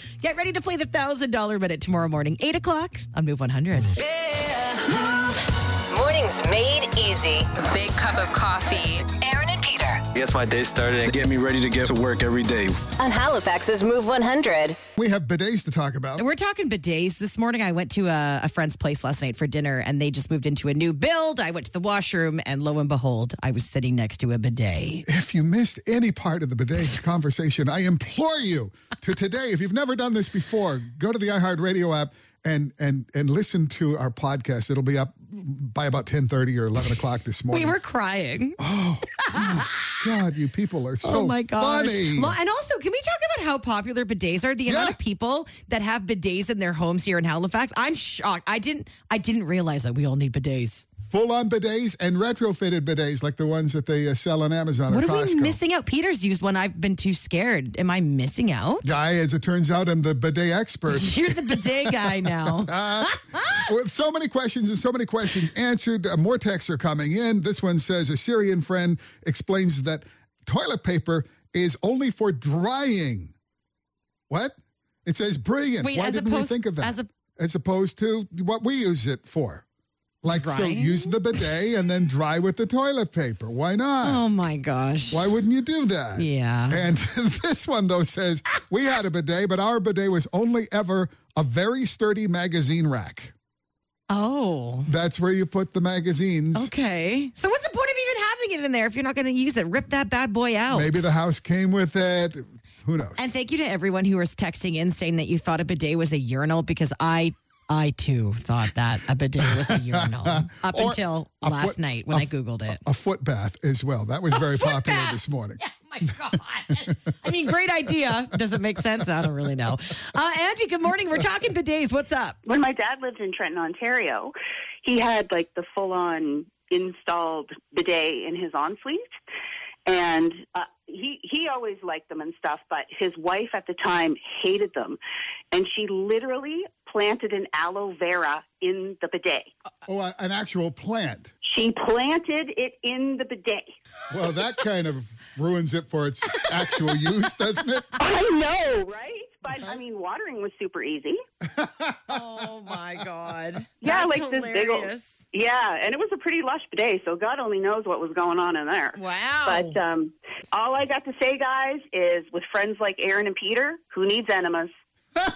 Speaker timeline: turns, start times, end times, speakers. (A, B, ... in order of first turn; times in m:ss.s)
0:00.2-0:03.9 A
0:04.0-0:10.1 B
0:10.1-0:12.8 C
0:13.0-0:14.8 B
0:15.0-0:16.2 D
0:16.2-0:25.0 A
0:25.0-0:37.8 D
0:37.5-0:38.6 A
0:38.6-0:42.4 D
0:39.2-0:40.0 A
0:41.0-0:50.8 A
0:44.6-0:45.0 D
0:51.1-0:55.6 D
0:54.9-0:58.9 A
0:58.8-1:13.3 D
1:00.9-1:03.6 A
1:14.3-1:19.6 D
1:15.8-1:17.1 A
1:20.2-1:24.2 D
1:20.2-1:21.4 A
1:24.0-1:25.3 A
1:25.1-1:33.3 D
1:26.2-1:26.8 A
1:34.1-1:34.9 A
1:34.8-1:36.7 D
1:36.5-1:41.0 A
1:40.7-1:43.3 D
1:43.2-1:52.8 A
1:49.5-1:55.6 D
1:54.3-2:02.4 A
2:02.4-2:09.1 E
2:09.8-2:15.0 E
2:15.5-2:19.5 E
2:19.9-2:21.3 D
2:21.4-2:23.7 E
2:24.1-2:28.0 D
2:28.0-2:31.2 E
2:31.5-2:32.2 D
2:32.1-2:35.2 A
2:33.8-2:44.7 E
2:38.9-2:39.8 A